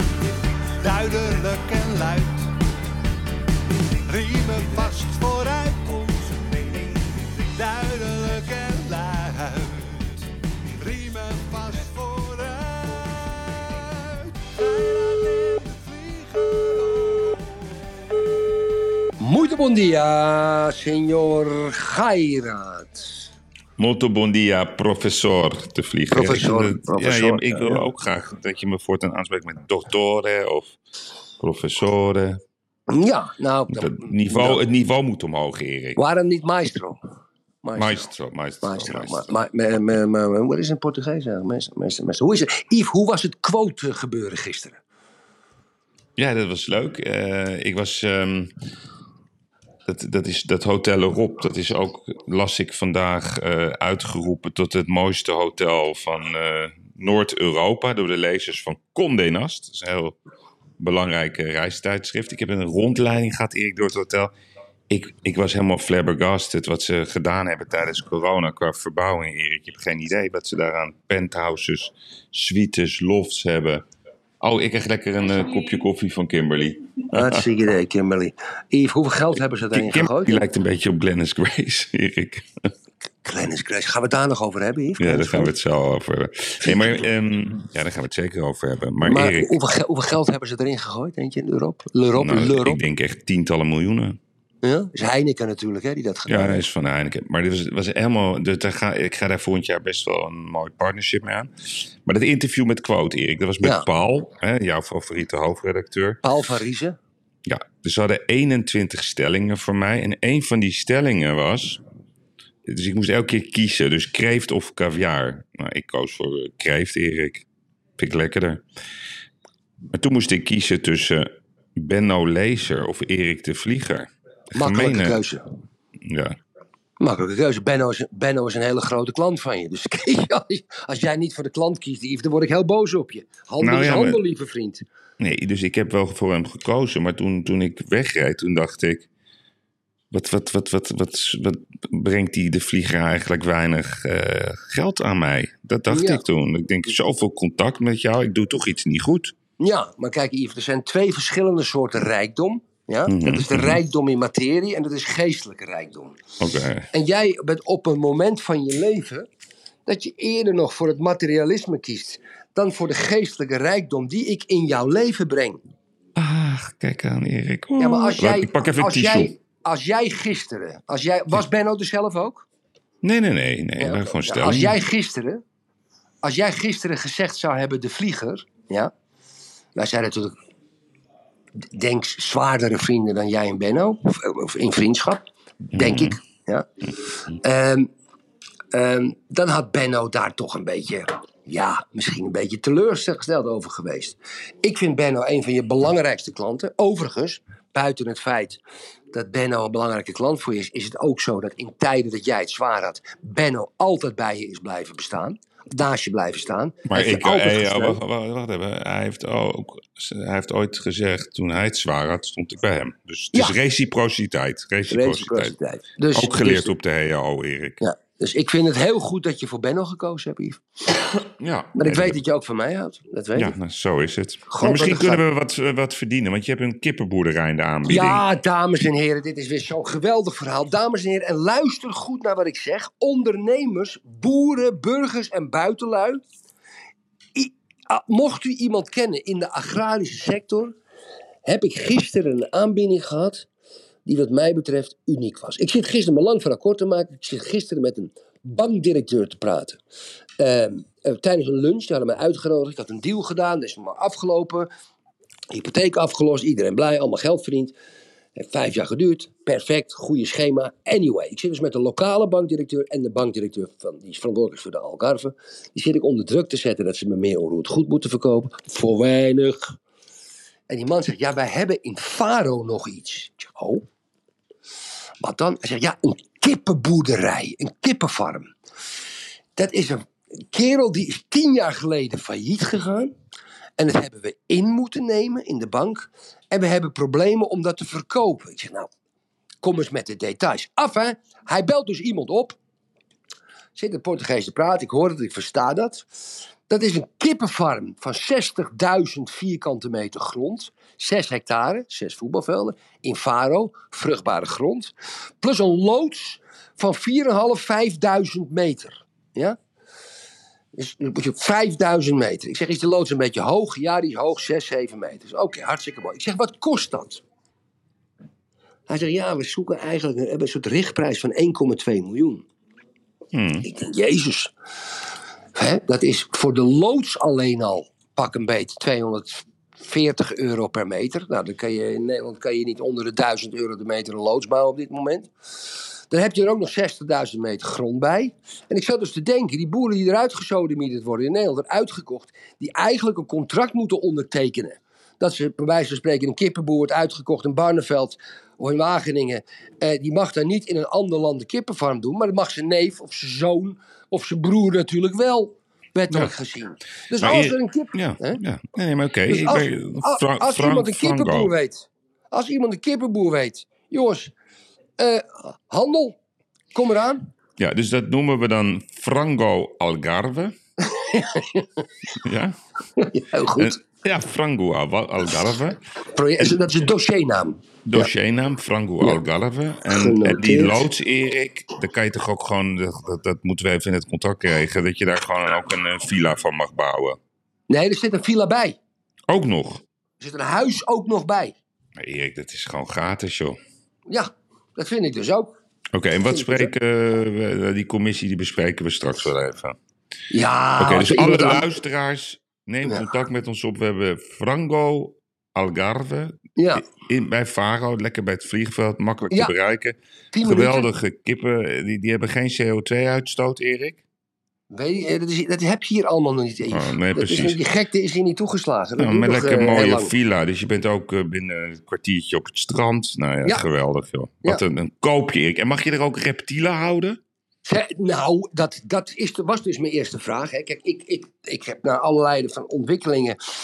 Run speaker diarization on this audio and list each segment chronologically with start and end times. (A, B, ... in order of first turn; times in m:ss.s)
0:00.8-0:02.5 A
0:04.0-0:10.2 A
0:10.8-0:17.6 A
0:19.2-0:23.2 B
0:23.8-0:30.8 C
0:26.1-0:27.8 B
0:31.4-0:32.4 C
0:32.9-0:34.6 B
0:33.7-0:36.0 C
0:36.0-0:37.0 B
0:37.6-0:38.1 B
0:37.8-0:39.3 C
0:38.6-0:44.8 B
0:46.2-0:48.5 C
0:49.8-1:00.2 C
1:00.8-1:04.3 C
1:04.9-1:13.8 C
1:14.4-1:17.4 C
1:17.1-1:20.4 B
1:19.7-1:22.5 C
1:23.2-1:25.5 B
1:25.0-1:29.6 C
1:29.0-1:32.8 B
1:32.1-1:34.2 C
1:34.6-1:36.6 B
1:36.3-1:41.5 C
1:42.0-1:46.2 C
1:46.2-1:47.0 B
1:47.4-1:51.8 C
1:52.6-1:57.4 C
1:58.0-1:58.6 C
1:59.9-2:05.2 C
2:04.5-2:05.4 B
2:06.0-2:06.4 C
2:07.0-2:14.8 B
2:13.6-2:14.2 C
2:15.2-2:19.1 C
2:20.1-2:29.3 C
2:25.9-2:26.2 B
2:29.6-2:36.2 B
2:33.1-2:33.8 C
2:36.4-2:36.9 C
2:36.9-2:39.3 B
2:39.9-2:45.6 B
2:46.2-2:49.3 C
2:47.8-2:52.4 B
2:53.0-2:54.8 C
2:53.8-2:55.4 B
2:56.2-2:58.9 B
2:59.8-3:00.3 B
3:01.7-3:06.7 B
3:05.7-3:06.2 C
3:07.3-3:07.9 B
3:08.7-3:18.6 B
3:19.1-3:28.0 B
3:26.9-3:35.6 C
3:34.9-3:36.7 B
3:36.1-3:37.8 C
3:37.8-3:41.0 B
3:41.4-3:42.2 C
3:41.8-3:43.5 B
3:43.4-3:48.2 C
3:44.5-3:45.2 B
3:47.9-3:56.2 B
3:57.3-4:00.8 B
4:01.4-4:03.5 B
4:04.1-4:09.8 B
4:10.4-4:14.7 B
4:15.5-4:17.8 B
4:18.4-4:29.8 B
4:30.7-4:33.8 B
4:35.2-4:38.5 B
4:39.6-4:43.1 B
4:43.8-4:48.9 B
4:49.6-4:52.6 B
4:53.8-4:56.1 B
4:56.7-5:09.6 B
5:10.8-5:17.2 B
5:18.9-5:22.4 B
5:23.3-5:23.6 C
5:23.6-5:24.5 B
5:25.5-5:35.3 B
5:36.1-5:58.4 B
5:57.2-6:01.5 C
5:59.3-6:04.3 B
6:05.0-6:06.2 B
6:06.7-6:07.3 B
6:07.6-6:10.5 C
6:10.8-6:11.8 B
6:12.2-6:12.6 C
6:13.0-6:13.8 B
6:13.6-6:15.8 C
6:16.1-6:18.1 B
6:17.8-6:27.2 C
6:19.9-6:20.8 B
6:27.7-6:28.8 B
6:29.3-6:29.8 C
6:30.2-6:31.6 B
6:32.0-6:33.6 C
6:34.1-6:35.5 B
6:35.9-6:39.8 C
6:36.3-6:36.7 B
6:40.3-6:41.7 B
6:40.8-6:54.0 C
6:46.6-6:46.8 B
6:50.3-6:50.9 B
6:54.7-7:00.1 B
6:56.7-6:57.6 C
6:59.0-7:07.2 C
7:07.6-7:13.4 B